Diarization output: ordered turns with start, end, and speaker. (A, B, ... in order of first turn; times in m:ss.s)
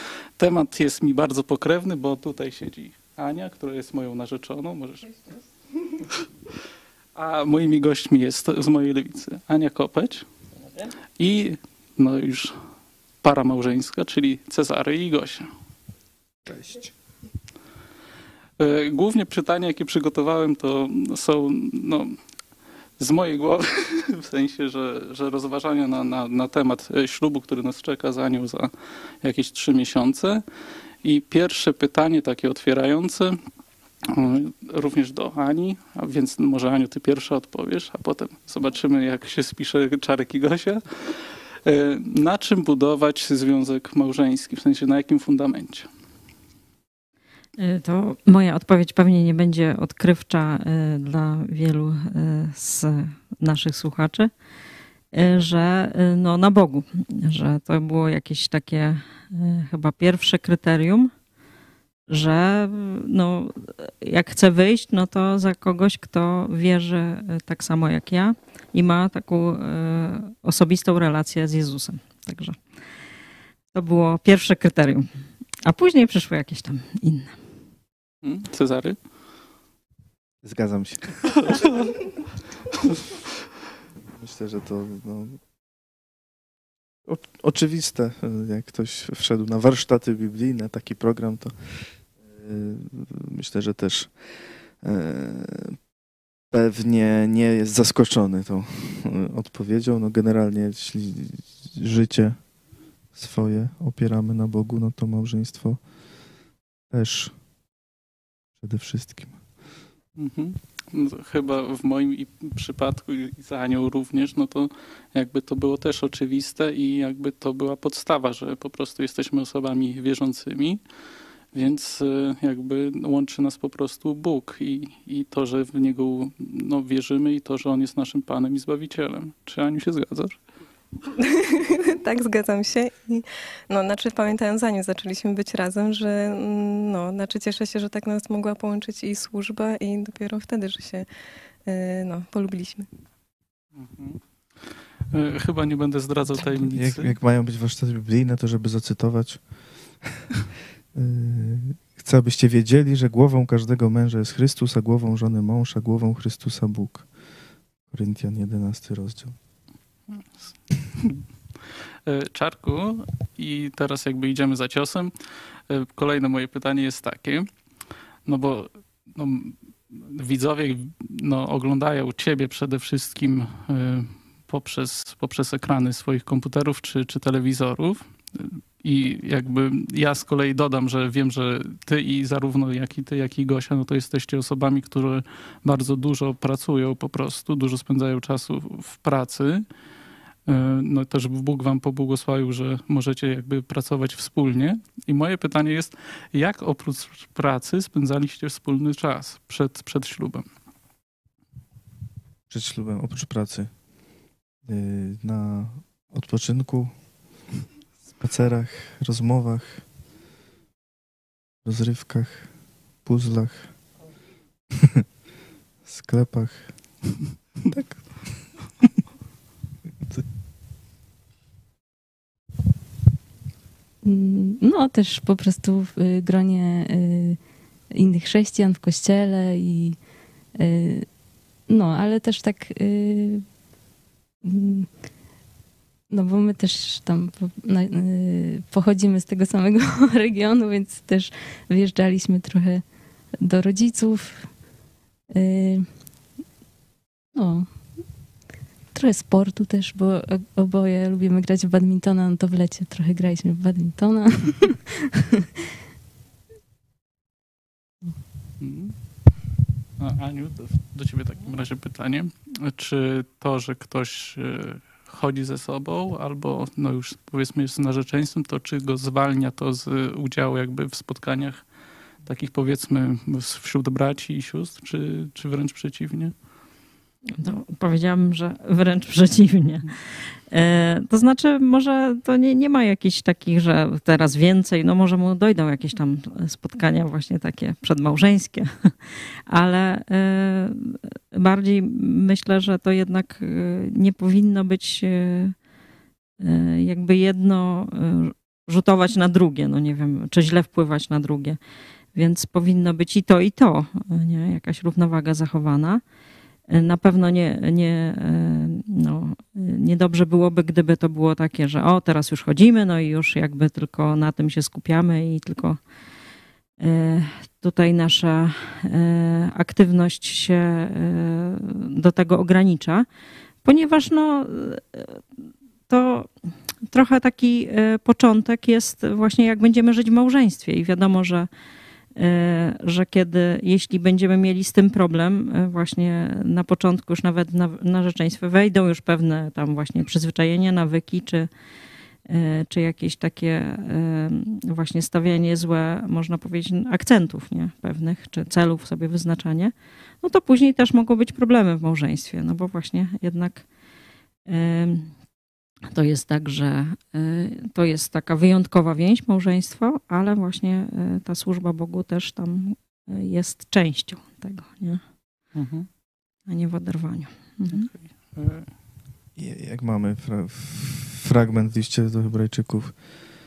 0:00.4-0:05.2 A
0:07.2-0:10.3 A
0:11.2-0:12.6 A
0:13.2-0:15.5 A
0:16.5-0:16.9 B
0:18.6-0:22.2 A
0:23.0-0:28.7 A
0:29.2-0:30.4 A
0:31.0-0:33.4 A
0:34.1-0:45.9 A
0:47.6-0:54.3 C
0:55.1-1:01.1 C
1:02.1-1:12.6 C
1:13.7-1:15.1 C
1:15.6-1:17.4 C
1:18.2-1:19.0 A
1:20.4-1:21.6 B
1:24.1-1:25.4 B
1:27.1-1:35.8 B
1:36.5-1:42.5 B
1:43.1-1:45.8 B
1:46.9-1:47.3 B
1:48.6-1:49.4 B
1:50.2-2:00.8 A
2:01.5-2:10.4 A
2:11.2-2:21.1 D
2:21.6-2:22.9 D
2:23.8-2:24.2 A
2:25.1-2:27.2 A
2:26.7-2:30.2 B
2:30.9-2:37.1 B
2:37.9-2:39.4 B
2:41.0-2:41.2 A
2:42.1-2:45.1 A
2:45.7-2:47.5 A
2:48.2-3:09.7 A
3:10.5-3:20.4 A
3:22.5-3:23.7 B
3:24.6-3:27.0 B
3:28.2-3:29.9 B
3:31.6-3:33.9 B
3:35.8-3:36.8 B
3:37.6-3:38.5 B
3:44.0-3:47.4 E
3:47.9-3:50.0 E
3:50.6-3:51.1 E
3:51.7-3:53.4 E
3:54.4-3:54.9 E
3:56.1-4:02.8 E
4:03.4-4:04.6 E
4:05.3-4:05.9 E
4:07.4-4:08.0 E
4:08.9-4:15.1 E
4:18.6-4:19.3 A
4:20.0-4:31.7 A
4:32.2-4:36.4 A
4:37.4-4:55.6 C
4:56.4-5:01.6 C
5:02.1-5:06.0 C
5:06.7-5:15.8 C
5:16.8-5:23.1 C
5:23.6-5:25.2 C
5:25.9-5:26.4 C
5:26.9-5:31.5 C
5:32.2-5:41.5 C
5:42.2-5:53.7 C
5:54.4-5:55.2 C
5:55.9-6:05.0 C
6:05.5-6:05.9 A
6:06.5-6:07.9 C
6:07.7-6:08.7 A
6:09.4-6:13.1 B